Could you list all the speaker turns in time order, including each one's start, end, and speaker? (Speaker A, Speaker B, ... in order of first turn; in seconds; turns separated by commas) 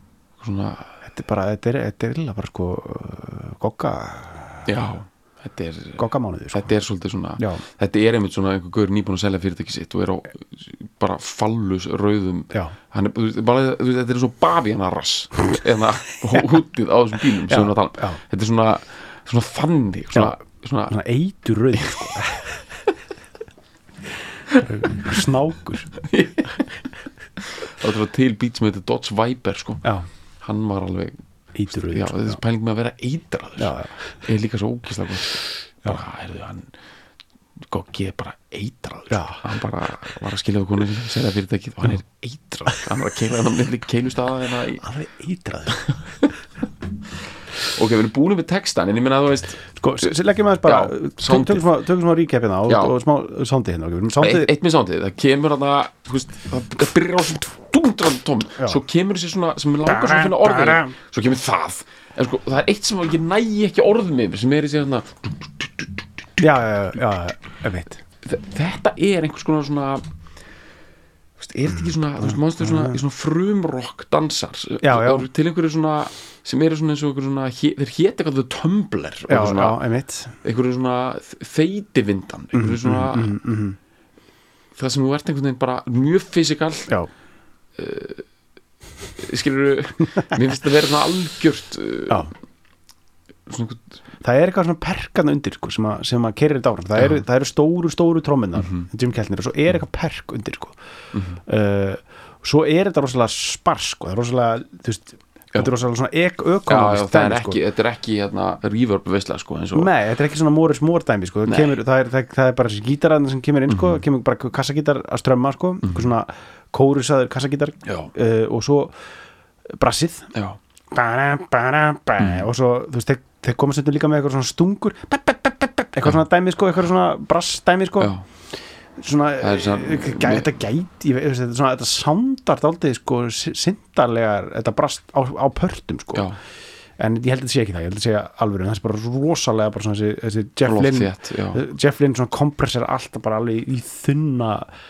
Speaker A: 0.4-1.0, Speaker B: 1.0-4.7, Speaker A: 4.7-21.0, Speaker B: 6.0-6.7, Speaker B: 17.5-18.2, Speaker B: 20.9-22.5, Speaker A: 21.8-22.1, Speaker B: 24.6-25.9, Speaker A: 26.0-26.7, Speaker A: 27.4-29.8, Speaker A: 30.4-31.2, Speaker B: 31.6-32.4, Speaker A: 31.7-36.7, Speaker B: 33.6-34.0, Speaker A: 37.7-44.9, Speaker B: 39.1-39.4, Speaker B: 44.8-45.8, Speaker A: 45.7-46.3, Speaker A: 47.7-50.1, Speaker B: 49.8-54.5, Speaker A: 50.6-51.6, Speaker A: 52.7-52.9, Speaker A: 54.2-66.4, Speaker B: 59.9-60.9, Speaker B: 66.4-68.0, Speaker A: 68.2-70.0, Speaker A: 71.4-79.8, Speaker B: 72.2-73.0, Speaker B: 74.8-75.3, Speaker B: 79.3-80.4, Speaker A: 80.4-83.4, Speaker B: 82.5-83.8, Speaker A: 84.8-86.9, Speaker A: 87.8-88.2, Speaker A: 89.2-92.3, Speaker A: 93.5-93.9, Speaker B: 94.2-100.8, Speaker A: 98.6-98.9, Speaker A: 101.1-101.4, Speaker B: 101.5-107.6, Speaker A: 106.7-109.9, Speaker B: 109.7-118.9, Speaker A: 111.5-111.7, Speaker A: 113.7-114.0, Speaker A: 117.8-118.1, Speaker B: 119.7-120.3, Speaker A: 120.3-120.6, Speaker B: 120.9-128.1, Speaker B: 129.0-136.3, Speaker A: 129.4-130.5, Speaker B: 137.0-144.7, Speaker A: 140.6-141.6